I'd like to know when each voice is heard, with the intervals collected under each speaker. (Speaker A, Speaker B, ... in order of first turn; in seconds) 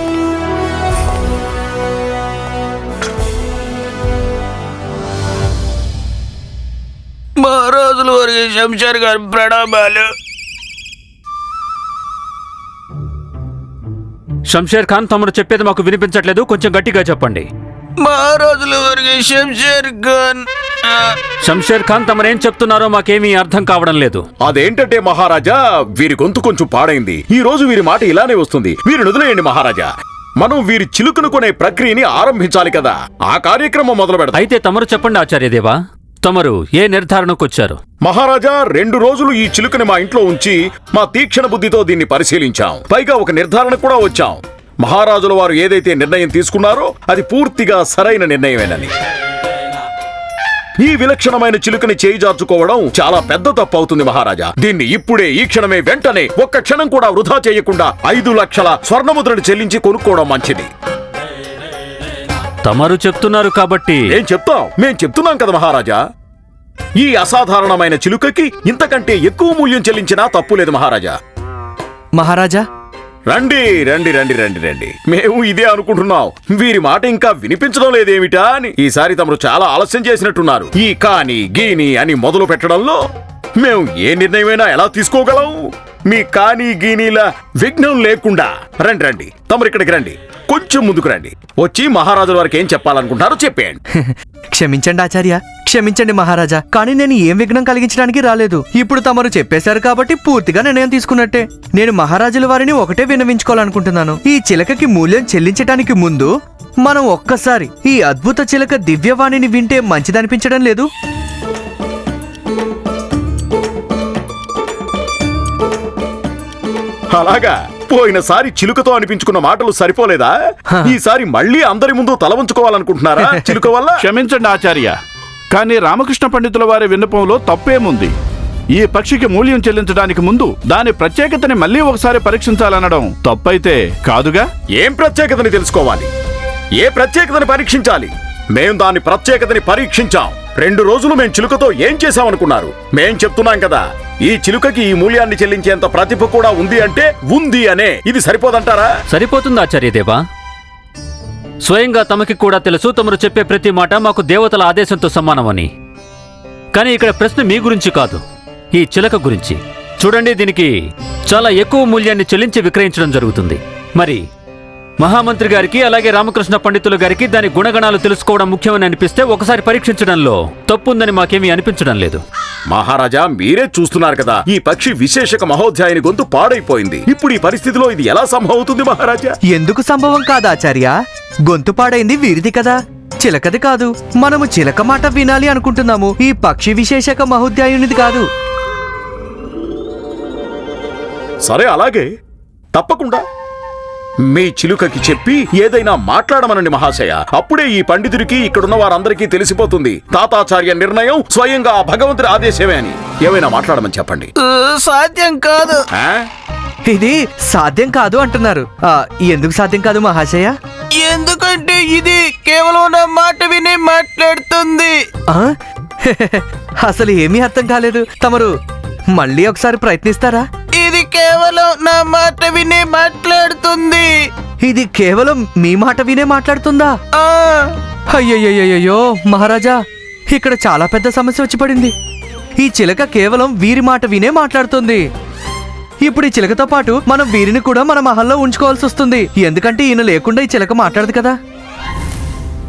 Speaker A: 7.4-10.0, 18.0-20.4, 204.4-205.8, 211.0-214.9, 220.8-224.1, 227.2-227.6
Speaker B: 14.5-17.5, 21.4-24.2, 34.3-37.8, 62.6-64.0, 149.1-150.2, 151.6-155.7, 156.7-158.2, 158.7-160.7, 161.3-164.2, 165.0-172.2
Speaker C: 24.4-29.9, 30.4-34.4, 38.0-48.9, 50.8-60.7, 64.1-66.0, 67.0-71.1, 73.3-83.0, 83.6-93.8, 117.1-120.3, 120.8-124.0, 134.8-136.1, 136.8-148.9, 172.7-179.3, 191.4-192.1, 192.7-193.2, 194.3-204.3, 205.9-206.2
Speaker D: 72.2-72.6, 94.0-106.3, 106.8-110.9, 123.2-123.5, 179.5-180.9, 181.5-188.2, 206.8-210.5, 216.0-218.5, 219.1-220.4, 224.6-226.9, 228.1-229.8, 230.3-231.9, 232.6-235.0, 236.0-241.3
Speaker E: 124.0-125.0, 125.5-128.1, 128.7-134.5